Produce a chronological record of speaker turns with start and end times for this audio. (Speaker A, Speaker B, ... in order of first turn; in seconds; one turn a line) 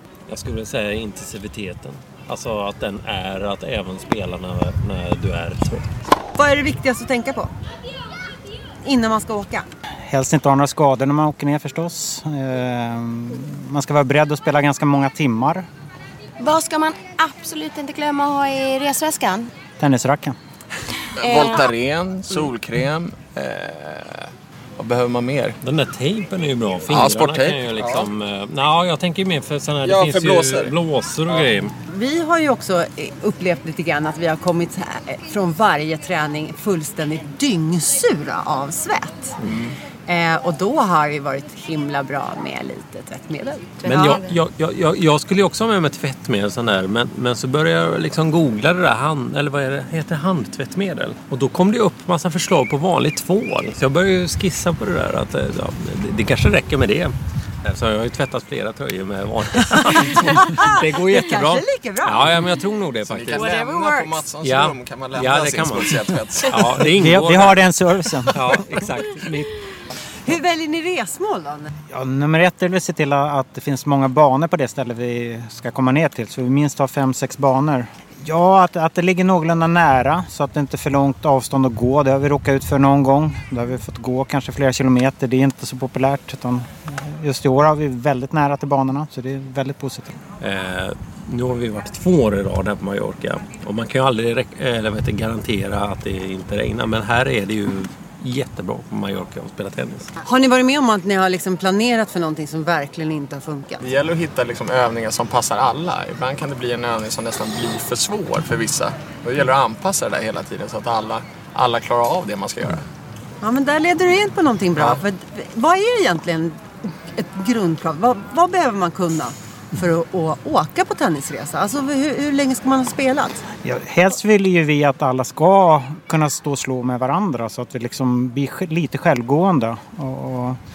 Speaker A: 0.3-6.1
Speaker B: 6.3-7.5
Speaker B: 8.8-9.7
Speaker C: 10.1-15.7
Speaker D: 16.4-19.5
Speaker C: 19.8-20.4
Speaker E: 21.2-25.6
Speaker D: 21.2-21.7
Speaker A: 25.6-31.7
Speaker E: 26.9-28.1
Speaker E: 29.8-30.7
Speaker B: 31.8-39.4
Speaker A: 39.4-39.7
Speaker B: 40.1-43.8
Speaker D: 43.8-44.4
Speaker A: 43.8-57.1
Speaker A: 57.6-63.6
Speaker B: 60.3-62.5
Speaker E: 63.0-67.0
Speaker D: 63.4-64.2
Speaker A: 64.4-67.7
Speaker C: 67.0-68.6
Speaker A: 68.3-69.5
Speaker B: 70.2-71.7
Speaker C: 71.9-90.2
Speaker A: 90.4-100.1
Speaker B: 100.2-103.8
Speaker E: 103.8-112.8
Speaker B: 113.4-123.4
Speaker C: 123.6-130.6